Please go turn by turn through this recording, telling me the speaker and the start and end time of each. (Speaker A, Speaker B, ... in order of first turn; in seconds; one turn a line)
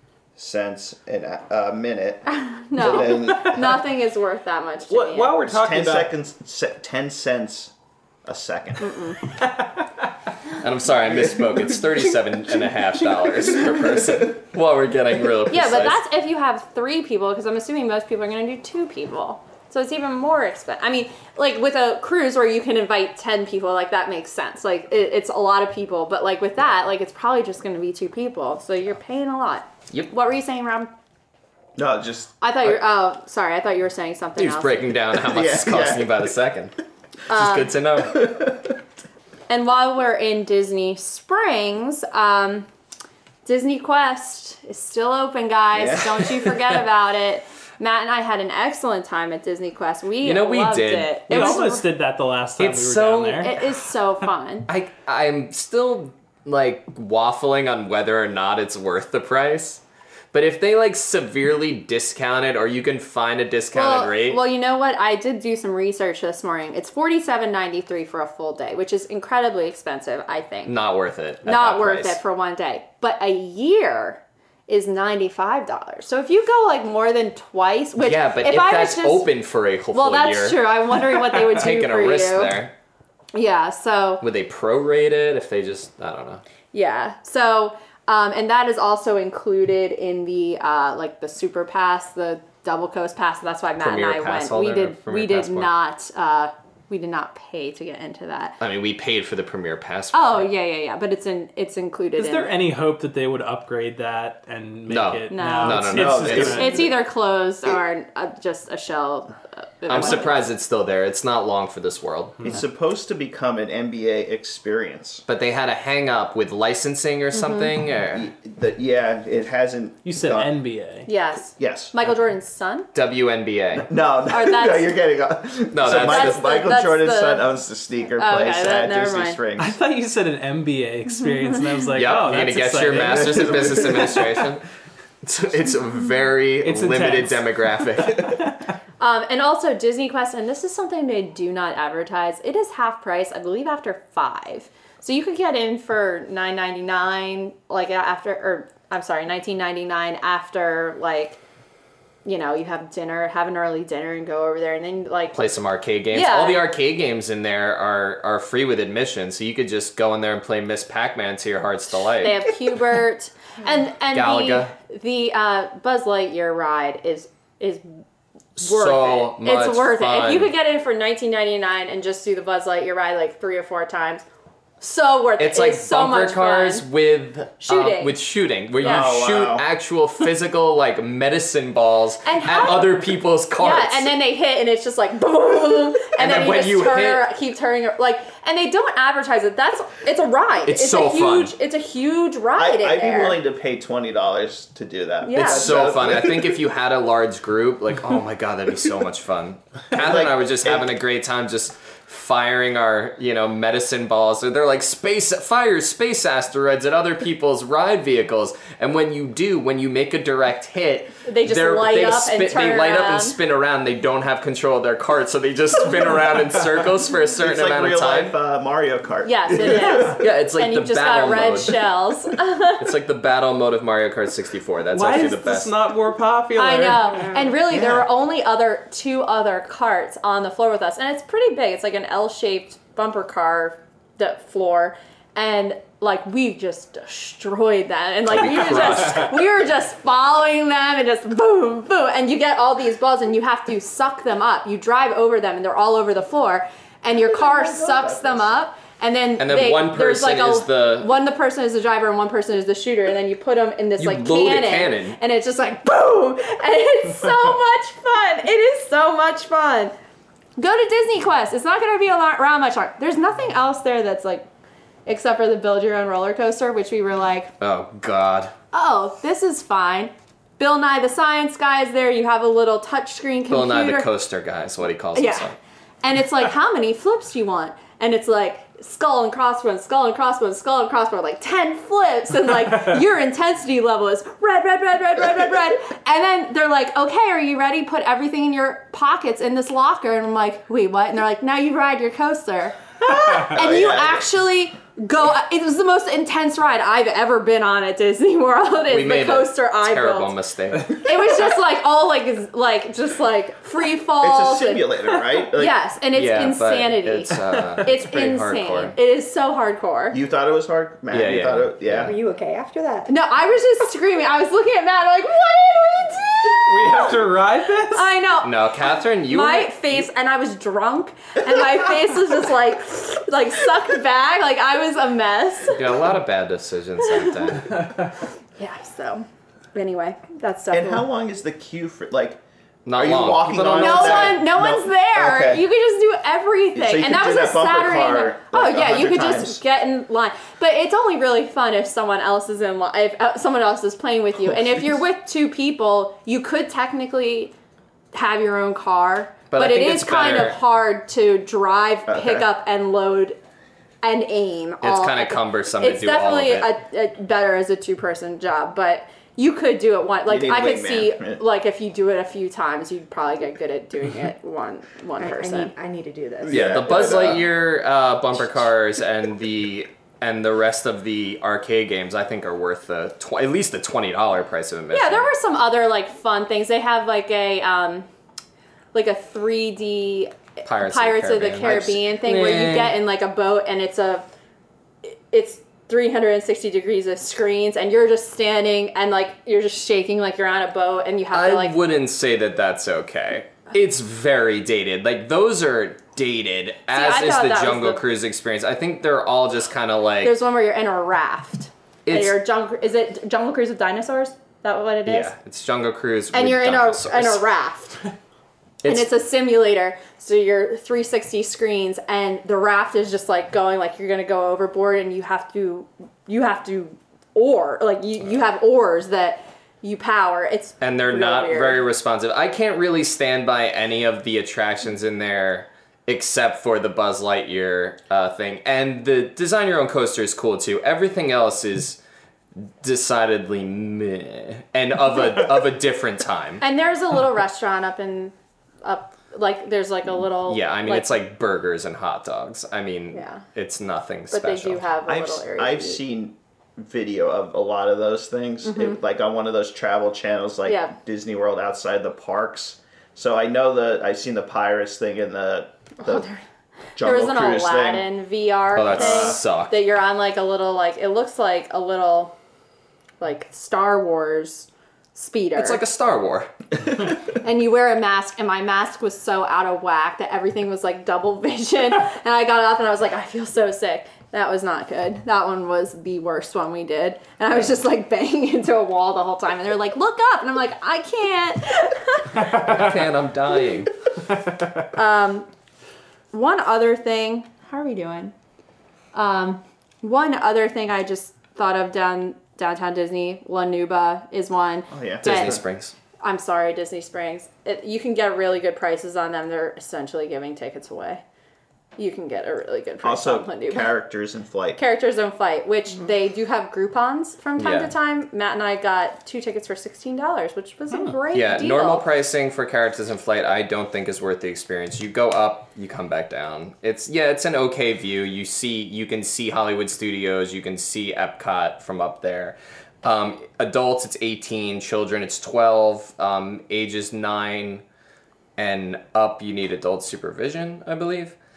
Speaker A: 0.3-3.8
Speaker B: 2.3-5.4
Speaker C: 4.9-6.1
Speaker A: 5.5-7.7
Speaker A: 8.2-9.0
Speaker B: 8.8-9.2
Speaker C: 9.4-9.7
Speaker D: 10.6-16.0
Speaker A: 11.1-11.6
Speaker A: 13.6-14.3
Speaker B: 15.5-30.9
Speaker A: 31.8-32.8
Speaker B: 32.4-34.9
Speaker D: 34.4-36.7
Speaker A: 35.2-36.2
Speaker B: 37.3-37.7
Speaker D: 37.3-38.3
Speaker A: 38.0-38.7
Speaker B: 39.5-42.7
Speaker B: 43.4-51.8
Speaker A: 45.7-46.6
Speaker D: 50.2-51.7
Speaker C: 51.3-53.6
Speaker D: 52.6-53.6
Speaker B: 53.4-54.7
Speaker D: 54.7-59.8
Speaker D: 60.3-64.4
Speaker B: 63.7-70.7
Speaker D: 70.7-72.2
Speaker B: 71.4-79.3
Speaker D: 78.0-82.7
Speaker B: 79.9-82.5
Speaker B: 83.3-84.2
Speaker D: 84.2-86.4
Speaker B: 86.7-98.6
Speaker D: 93.8-95.7
Speaker D: 98.6-100.5
Speaker B: 100.1-102.5
Speaker C: 102.2-106.8
Speaker D: 104.9-106.8
Speaker B: 105.3-110.4
Speaker A: 106.0-107.0
Speaker D: 109.9-112.6
Speaker A: 112.5-115.2
Speaker D: 115.3-118.3
Speaker B: 117.3-117.7
Speaker A: 118.1-120.5
Speaker C: 120.0-121.1
Speaker B: 121.0-122.9
Speaker A: 121.6-121.9
Speaker D: 122.9-123.9
Speaker A: 123.8-129.8
Speaker B: 124.3-125.0
Speaker D: 125.7-126.4
Speaker B: 126.0-127.5
Speaker B: 128.2-129.4
Speaker C: 129.6-134.4
Speaker D: 131.9-134.6
Speaker A: 133.0-134.1
Speaker D: 135.2-138.4
Speaker C: 136.6-138.6
Speaker B: 139.0-151.4
Speaker B: 152.2-155.4
Speaker D: 155.3-162.5
Speaker B: 156.1-156.6
Speaker B: 162.2-167.8
Speaker D: 164.1-164.7
Speaker D: 168.6-170.5
Speaker B: 168.6-174.2
Speaker B: 174.8-176.8
Speaker D: 175.4-184.1
Speaker B: 177.6-178.2
Speaker A: 178.8-179.7
Speaker B: 182.2-183.0
Speaker B: 183.6-193.4
Speaker D: 186.1-187.3
Speaker D: 190.6-191.5
Speaker A: 192.5-196.6
Speaker B: 195.2-195.7
Speaker D: 195.3-218.3
Speaker A: 199.9-200.9
Speaker B: 211.2-213.4
Speaker A: 217.4-220.2
Speaker B: 219.2-222.9
Speaker D: 220.0-221.9
Speaker D: 222.8-225.7
Speaker C: 224.9-227.2
Speaker B: 226.6-259.9
Speaker A: 227.7-228.0
Speaker D: 238.3-239.3
Speaker A: 247.4-248.4
Speaker D: 249.4-251.2
Speaker D: 254.0-255.2
Speaker B: 260.6-264.4
Speaker B: 265.1-267.5
Speaker D: 267.6-268.5
Speaker B: 268.7-274.1
Speaker D: 273.5-275.6
Speaker B: 275.1-275.5
Speaker B: 276.0-300.3
Speaker A: 293.4-294.3
Speaker D: 298.9-301.0
Speaker B: 300.9-304.9
Speaker A: 304.2-305.7
Speaker B: 305.5-310.2
Speaker D: 306.1-308.9
Speaker A: 310.1-312.1
Speaker D: 311.1-312.1
Speaker E: 312.0-313.1
Speaker B: 313.1-317.3
Speaker C: 316.7-318.1
Speaker B: 317.9-318.6
Speaker D: 318.4-320.1
Speaker B: 319.3-326.0
Speaker D: 325.7-327.8
Speaker B: 327.0-327.7
Speaker B: 328.6-331.1
Speaker A: 330.7-332.4
Speaker D: 332.8-334.4
Speaker A: 332.9-335.6
Speaker B: 333.7-347.5
Speaker A: 336.7-339.6
Speaker B: 348.1-353.4
Speaker D: 349.5-350.6
Speaker A: 352.1-352.4
Speaker B: 354.0-365.7
Speaker D: 354.8-356.7
Speaker A: 360.3-361.4
Speaker E: 365.2-366.6
Speaker A: 366.4-367.5
Speaker D: 366.5-375.3
Speaker B: 374.9-378.1
Speaker B: 378.9-384.3
Speaker D: 380.6-382.9
Speaker B: 385.0-391.8
Speaker D: 391.3-400.4
Speaker B: 396.9-398.0
Speaker B: 400.2-405.3
Speaker D: 402.1-402.4
Speaker D: 405.1-407.4
Speaker B: 406.3-408.0
Speaker D: 408.8-409.1
Speaker B: 408.8-421.9
Speaker D: 420.8-432.0
Speaker D: 432.6-436.6
Speaker B: 436.6-441.1
Speaker D: 440.5-444.9
Speaker B: 443.1-443.4
Speaker B: 444.3-446.0
Speaker A: 445.1-456.2
Speaker B: 448.6-449.0
Speaker B: 450.6-450.9
Speaker B: 456.0-456.4
Speaker A: 456.9-458.1
Speaker B: 457.0-462.3
Speaker D: 458.7-459.8
Speaker A: 458.9-459.4
Speaker B: 463.2-465.8
Speaker D: 465.6-466.5
Speaker B: 467.1-482.7
Speaker D: 482.4-483.9
Speaker B: 484.9-485.5
Speaker B: 486.3-488.3
Speaker B: 489.1-495.6
Speaker A: 494.9-495.6
Speaker D: 495.2-495.9
Speaker B: 496.2-501.2
Speaker B: 502.0-503.9
Speaker A: 503.0-504.8
Speaker B: 504.8-512.0
Speaker D: 507.6-507.9
Speaker D: 511.3-527.8
Speaker D: 528.6-531.4